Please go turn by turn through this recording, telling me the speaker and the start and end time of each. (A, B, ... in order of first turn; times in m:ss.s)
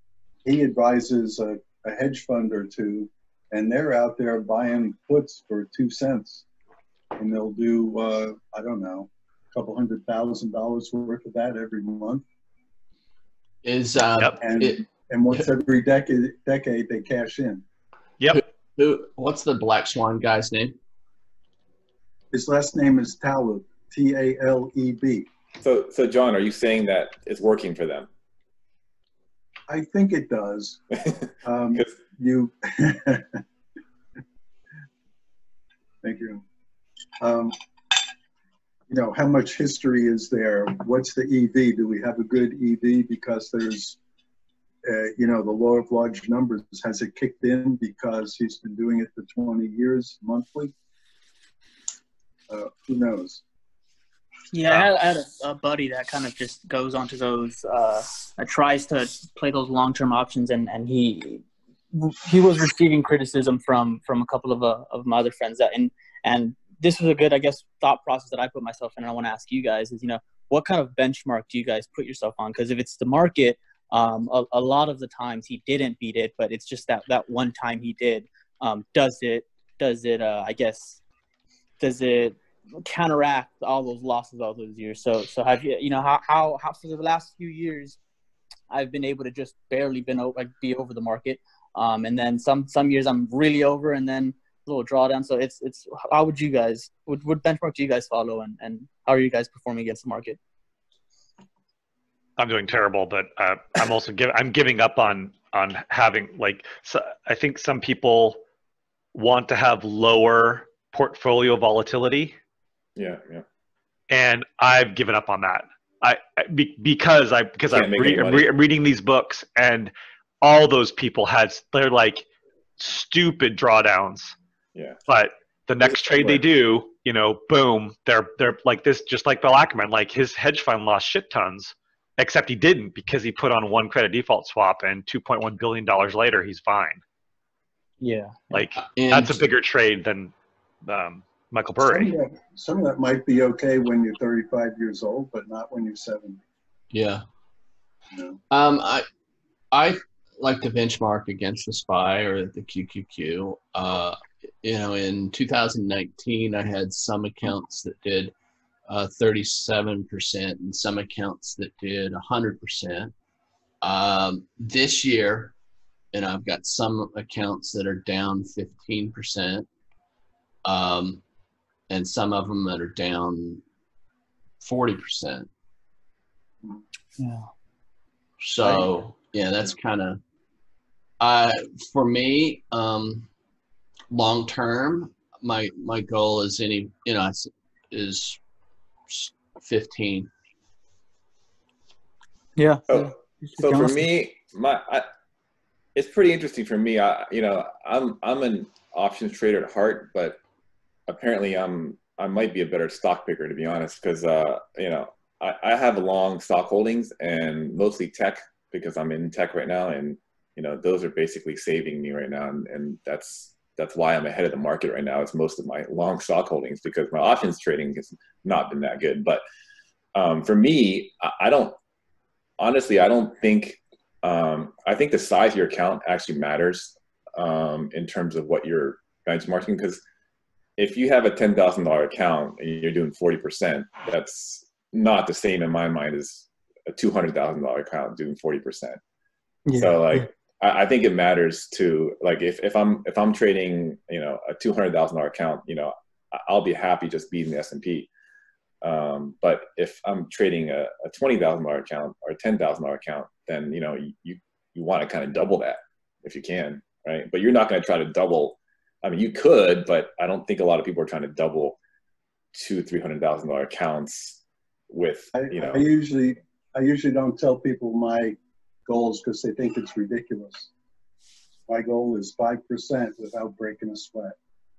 0:00.4-0:06.4 A
0:07.1-0:12.2 A
0:13.6-0:14.8 B
0:14.4-0:17.6 A
0:18.3-0:20.8 B
0:22.3-0:25.3 A
0:25.6-0:28.1 C
0:29.7-0:30.8 A
0:31.4-0:33.4 A
0:36.0-0:36.4 A
0:37.2-0:38.0 A
0:38.9-0:44.0 A
0:44.8-0:50.7 A
0:52.5-0:53.4 A
0:54.5-1:21.0 D
1:21.8-1:28.0 D
1:28.7-1:40.4 D
1:42.4-1:48.4 E
1:49.1-1:52.3 E
1:53.0-1:53.4 C
1:54.1-2:02.2 E
1:57.7-1:58.5 C
2:02.8-2:04.3 E
2:05.1-2:17.0 E
2:18.0-2:18.4 D
2:18.5-2:20.3 E
2:18.7-2:19.4 B
2:20.8-2:22.1 E
2:21.8-2:26.4 A
2:26.9-2:27.2 B
2:28.1-2:28.4 A
2:28.5-2:29.0 B
2:29.7-2:38.3 B
2:38.9-2:43.1 B
2:43.8-2:45.5 B
2:46.1-2:49.7 B
2:50.6-2:51.2 B
2:51.9-2:53.6 B
2:54.6-2:55.5 B
2:57.2-2:57.5 D
2:58.4-3:00.2 B
3:01.2-3:03.3 B
3:04.1-3:08.4 B
3:09.1-3:10.3 B
3:12.6-3:14.1 D
3:12.9-3:15.0 C
3:15.9-3:20.4 C
3:21.1-3:39.4 C
3:40.1-3:41.8 C
3:42.6-3:50.0 C
3:50.8-3:59.0 C
3:59.6-4:00.2 D
3:59.7-4:08.1 C
4:08.8-4:21.8 C
4:22.5-4:25.8 C
4:25.3-4:30.7 A
4:31.7-4:34.3 A